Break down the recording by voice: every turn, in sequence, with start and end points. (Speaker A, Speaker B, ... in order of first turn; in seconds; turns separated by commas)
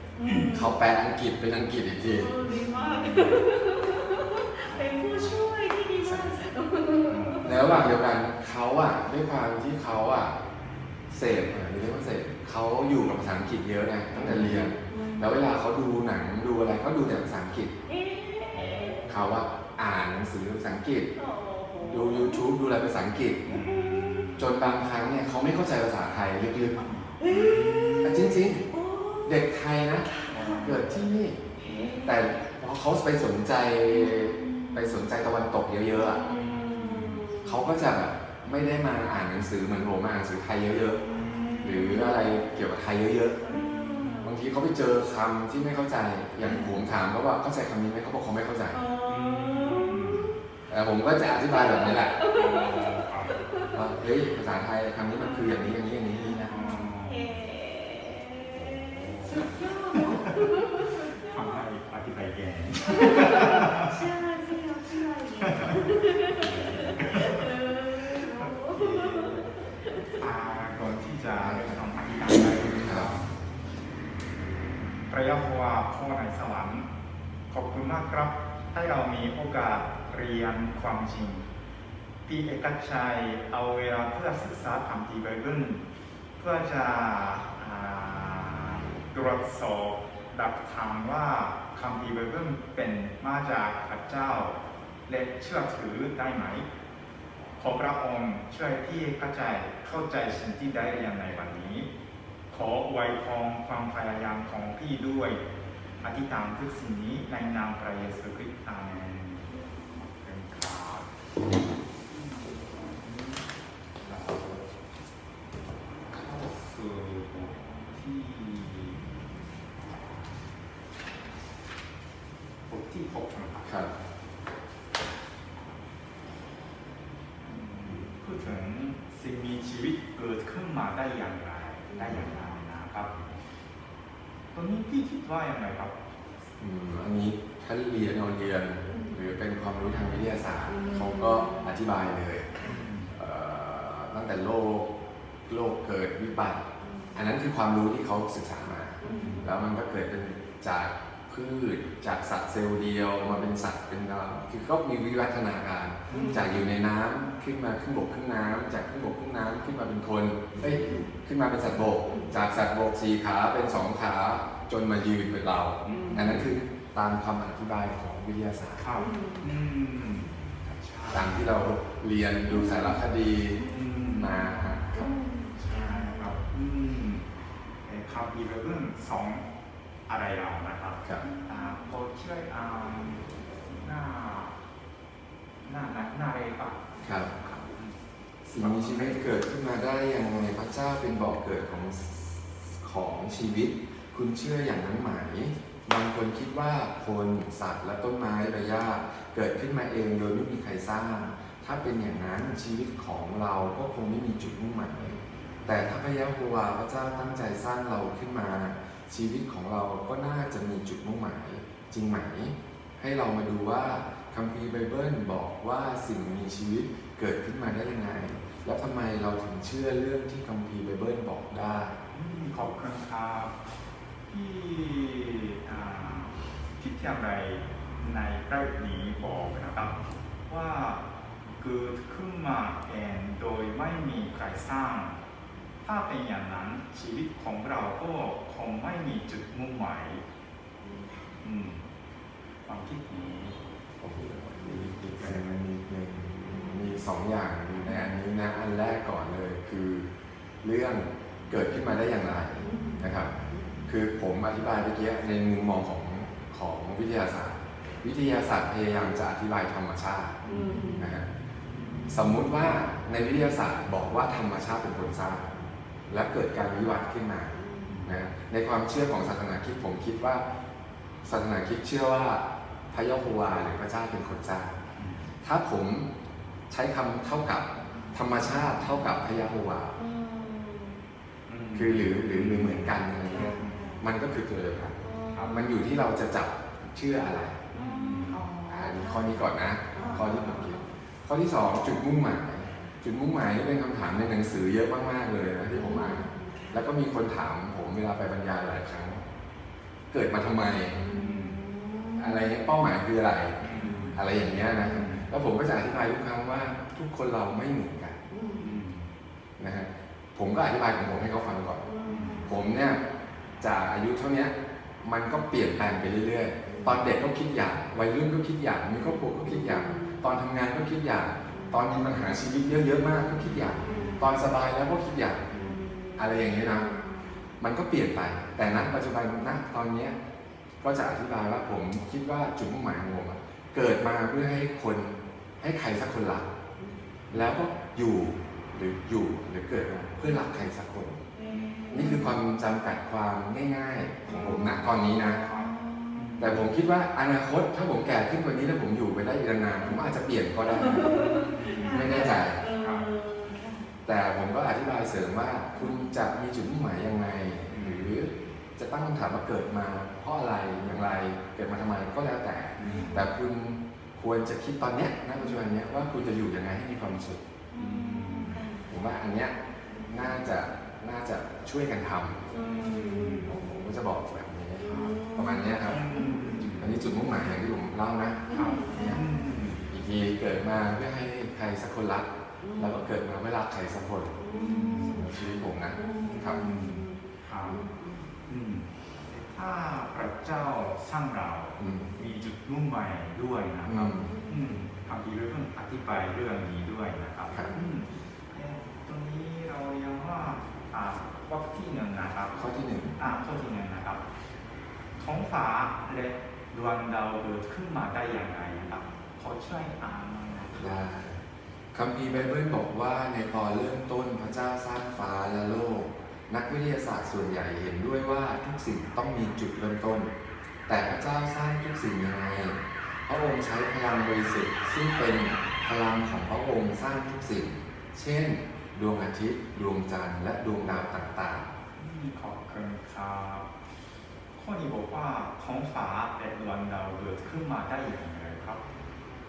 Speaker A: 0.1-0.8, Speaker B: 0.4-2.4, Speaker A: 2.0-7.5, Speaker C: 2.5-3.4, Speaker C: 4.6-5.1, Speaker B: 6.0-6.4, Speaker C: 7.1-7.9, Speaker B: 7.4-10.4, Speaker B: 11.1-17.7, Speaker C: 14.1-14.6, Speaker A: 14.2-15.6, Speaker A: 17.9-19.0, Speaker C: 18.5-19.4, Speaker B: 19.1-21.1, Speaker A: 21.1-22.5, Speaker B: 21.8-23.5, Speaker C: 23.4-24.4, Speaker A: 23.4-24.4, Speaker B: 24.4-26.8, Speaker C: 26.8-28.2, Speaker A: 27.2-30.8, Speaker B: 28.0-28.7, Speaker B: 29.2-31.4, Speaker C: 30.3-30.9, Speaker A: 31.6-32.3, Speaker C: 31.6-32.0, Speaker B: 32.0-36.3, Speaker A: 33.9-35.1, Speaker A: 35.9-37.8, Speaker C: 36.2-37.3, Speaker B: 37.4-41.0, Speaker A: 41.0-42.4, Speaker C: 41.1-41.8, Speaker B: 41.6-43.6, Speaker A: 43.4-44.3, Speaker C: 43.5-44.3, Speaker B: 44.2-48.8, Speaker A: 46.4-46.7, Speaker A: 48.7-50.4, Speaker C: 49.0-50.3, Speaker B: 50.7-52.1, Speaker A: 51.5-53.8, Speaker C: 52.3-53.4, Speaker B: 53.7-56.6, Speaker A: 55.1-61.6, Speaker C: 56.5-57.3, Speaker C: 58.5-64.0, Speaker A: 62.9-69.5, Speaker C: 65.4-69.6, Speaker C: 70.1-73.3, Speaker B: 71.4-71.8, Speaker B: 72.8-73.1, Speaker C: 75.1-76.9, Speaker C: 77.5-81.5, Speaker C: 82.2-85.8, Speaker C: 86.4-96.7, Speaker C: 97.6-101.9, Speaker C: 102.5-105.4, Speaker C: 106.0-111.1, Speaker C: 112.8-113.4, Speaker C: 114.0-114.7, Speaker C: 116.1-119.0, Speaker C: 122.7-123.9, Speaker B: 123.6-123.9, Speaker C: 127.4-133.2, Speaker A: 131.9-132.3, Speaker C: 134.5-136.0, Speaker B: 136.6-144.9, Speaker A: 138.9-139.2, Speaker C: 139.8-140.2, Speaker A: 140.7-141.7, Speaker C: 142.6-143.1, Speaker B: 145.4-168.8, Speaker A: 146.8-147.2, Speaker A: 149.0-149.5, Speaker C: 149.0-149.5, Speaker C: 156.1-156.4, Speaker A: 156.1-156.4, Speaker A: 160.6-161.1, Speaker A: 162.0-162.3, Speaker C: 165.8-166.3, Speaker A: 165.9-166.4, Speaker C: 168.8-171.5, Speaker A: 168.9-169.6, Speaker B: 171.1-175.1, Speaker A: 172.5-173.0, Speaker A: 173.6-173.9, Speaker C: 173.7-175.0, Speaker A: 174.9-176.3, Speaker C: 175.6-177.3, Speaker C: 177.8-179.5, Speaker C: 180.1-184.6, Speaker A: 181.2-181.8, Speaker C: 185.6-188.0, Speaker B: 187.0-187.3, Speaker B: 188.4-222.0, Speaker C: 188.6-189.2, Speaker C: 222.1-223.6, Speaker C: 224.3-231.0, Speaker C: 231.6-235.2, Speaker C: 235.8-240.2, Speaker A: 240.8-241.2, Speaker C: 241.4-241.9, Speaker C: 242.7-243.6, Speaker B: 244.0-250.1, Speaker C: 244.7-245.5, Speaker A: 246.5-246.9, Speaker A: 247.8-248.1, Speaker B: 250.6-253.3, Speaker A: 252.6-253.8, Speaker B: 253.9-260.4, Speaker C: 260.4-260.9, Speaker A: 260.4-261.2, Speaker B: 261.0-261.3, Speaker B: 262.1-265.5, Speaker B: 266.1-270.4, Speaker A: 267.6-267.9, Speaker C: 267.9-268.2, Speaker B: 271.2-274.7, Speaker C: 274.9-275.2, Speaker B: 275.4-276.1, Speaker B: 276.7-279.9, Speaker A: 279.9-281.0, Speaker C: 281.5-284.0, Speaker B: 281.7-287.6, Speaker A: 283.2-284.0, Speaker A: 285.0-286.0, Speaker C: 285.3-285.7, Speaker A: 287.7-290.9, Speaker C: 287.7-288.4, Speaker B: 288.7-299.2, Speaker C: 290.0-290.2, Speaker A: 295.7-296.8, Speaker B: 300.1-301.1, Speaker A: 300.9-302.5, Speaker C: 301.0-301.6, Speaker B: 302.1-308.2, Speaker C: 303.6-304.2, Speaker A: 303.7-304.2, Speaker C: 304.9-305.3, Speaker A: 308.3-308.8, Speaker C: 308.6-309.1, Speaker B: 309.6-311.9, Speaker A: 311.8-312.6, Speaker C: 312.0-312.6, Speaker B: 312.4-313.0, Speaker B: 313.6-326.9, Speaker A: 316.6-317.0, Speaker A: 319.1-320.2, Speaker A: 321.5-321.9, Speaker A: 323.8-324.4, Speaker A: 325.5-327.4, Speaker B: 327.6-330.2, Speaker B: 330.8-336.5, Speaker B: 337.3-341.2, Speaker A: 341.4-342.4, Speaker B: 341.9-345.5, Speaker A: 344.2-346.4, Speaker C: 344.2-344.9, Speaker C: 345.4-346.7, Speaker B: 346.4-352.6, Speaker A: 350.6-353.9, Speaker C: 350.9-353.1, Speaker B: 354.0-367.4, Speaker A: 355.7-356.1, Speaker C: 357.7-358.1, Speaker C: 362.8-363.2, Speaker A: 362.8-363.2, Speaker A: 367.7-368.9, Speaker C: 367.7-368.7, Speaker B: 368.9-369.6, Speaker A: 369.9-370.2, Speaker B: 370.1-372.5, Speaker A: 372.5-373.6, Speaker C: 372.6-373.5, Speaker B: 373.3-376.1, Speaker A: 374.8-376.6, Speaker C: 374.9-375.1, Speaker C: 375.8-377.0, Speaker B: 376.8-379.2, Speaker A: 378.5-379.4, Speaker C: 378.5-379.9, Speaker B: 379.9-386.7, Speaker A: 382.6-383.0, Speaker A: 384.4-388.3, Speaker C: 384.5-385.3, Speaker C: 386.2-387.8, Speaker C: 388.4-404.2, Speaker B: 391.8-392.1, Speaker B: 393.9-394.4, Speaker A: 394.1-394.7, Speaker B: 402.6-403.2, Speaker C: 405.2-411.0, Speaker B: 410.8-411.4, Speaker B: 411.9-420.3, Speaker B: 420.9-431.7, Speaker C: 431.9-433.7, Speaker C: 434.5-438.8